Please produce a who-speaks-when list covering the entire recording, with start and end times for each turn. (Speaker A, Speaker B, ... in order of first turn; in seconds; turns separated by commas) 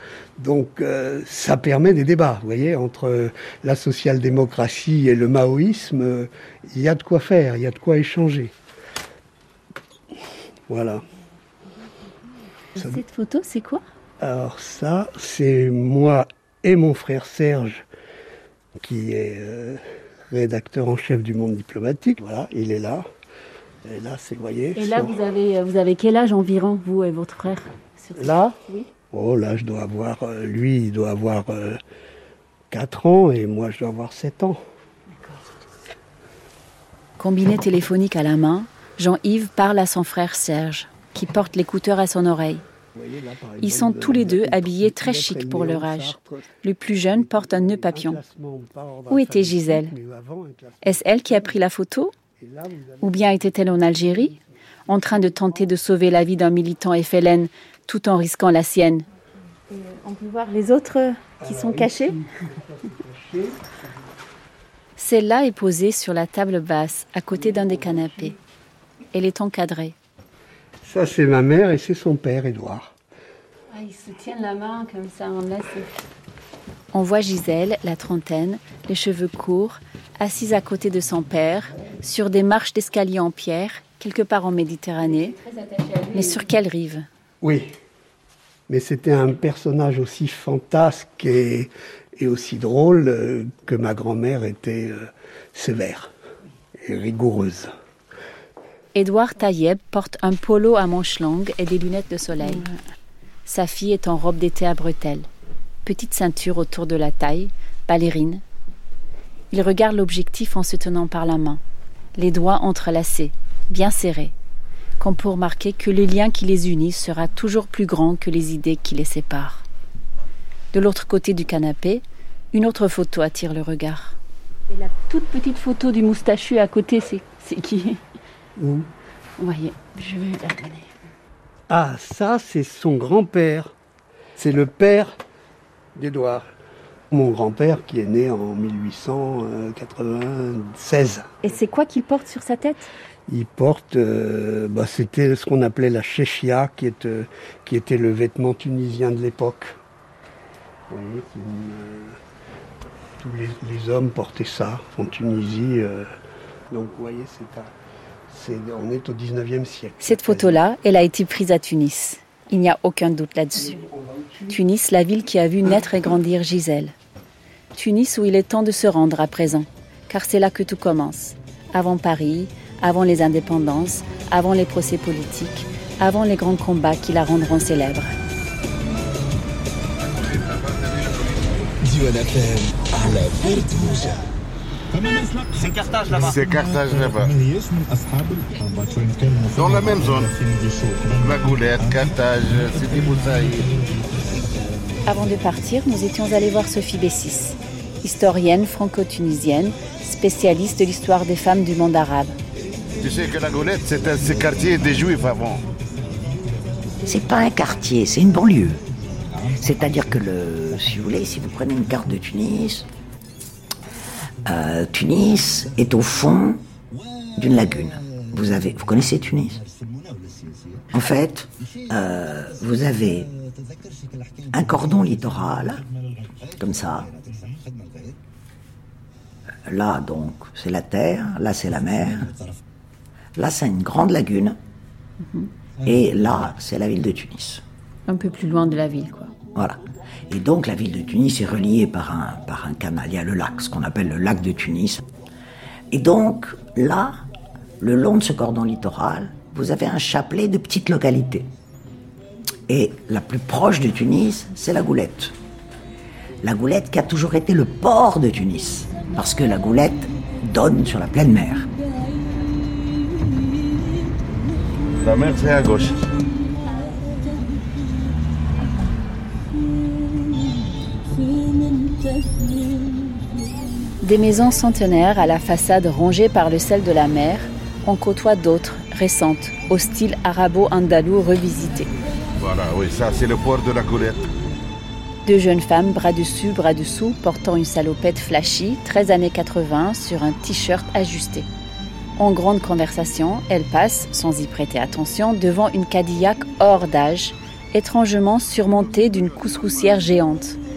Speaker A: 0.4-8.5, Speaker A: 10.7-11.0, Speaker B: 12.8-13.8, Speaker A: 14.2-17.8, Speaker A: 18.8-23.1, Speaker A: 23.9-25.2, Speaker B: 24.8-28.9, Speaker A: 28.2-31.8, Speaker A: 32.7-34.6, Speaker B: 37.2-42.6, Speaker A: 43.0-51.4, Speaker B: 43.6-48.2, Speaker B: 49.1-49.9, Speaker B: 50.8-52.1, Speaker A: 52.4-53.5, Speaker B: 53.0-59.0, Speaker B: 59.7-62.2, Speaker A: 61.4-63.8, Speaker B: 65.0-68.3, Speaker B: 69.1-70.0, Speaker A: 70.8-72.9, Speaker B: 73.7-75.9, Speaker B: 76.9-87.1, Speaker A: 87.4-87.7, Speaker A: 88.7-96.1, Speaker A: 96.8-97.7, Speaker B: 98.9-102.7, Speaker B: 103.5-105.3, Speaker B: 105.8-108.4, Speaker B: 109.5-111.6, Speaker B: 112.2-114.3, Speaker B: 115.0-119.6, Speaker B: 120.7-124.2, Speaker B: 124.7-128.0, Speaker A: 128.6-128.9, Speaker B: 129.4-130.9, Speaker A: 131.7-133.7, Speaker A: 134.4-135.2, Speaker A: 135.9-136.5, Speaker A: 137.1-141.4, Speaker B: 141.4-142.9, Speaker A: 143.3-149.8, Speaker A: 150.9-152.2, Speaker A: 153.2-156.1, Speaker A: 156.7-157.7, Speaker A: 158.3-160.6, Speaker B: 160.0-163.8, Speaker A: 163.6-164.6, Speaker B: 164.5-166.9, Speaker B: 167.8-178.1, Speaker C: 180.3-181.4, Speaker C: 186.0-187.5, Speaker C: 189.4-190.4, Speaker C: 191.1-193.9, Speaker B: 195.1-202.4, Speaker C: 203.0-205.7, Speaker D: 207.1-208.8, Speaker D: 209.6-212.9, Speaker D: 214.5-216.6, Speaker D: 217.4-219.6, Speaker D: 220.9-223.3, Speaker D: 224.5-225.8, Speaker D: 226.5-227.1, Speaker D: 229.7-232.3, Speaker D: 233.4-234.6, Speaker D: 235.8-237.6, Speaker B: 238.1-239.3, Speaker D: 240.3-245.1, Speaker D: 245.9-247.2, Speaker D: 247.8-251.5, Speaker D: 252.7-255.4, Speaker D: 256.4-261.7, Speaker C: 265.0-266.1, Speaker B: 274.0-281.9, Speaker C: 282.4-284.3, Speaker B: 285.3-291.5, Speaker B: 292.2-300.6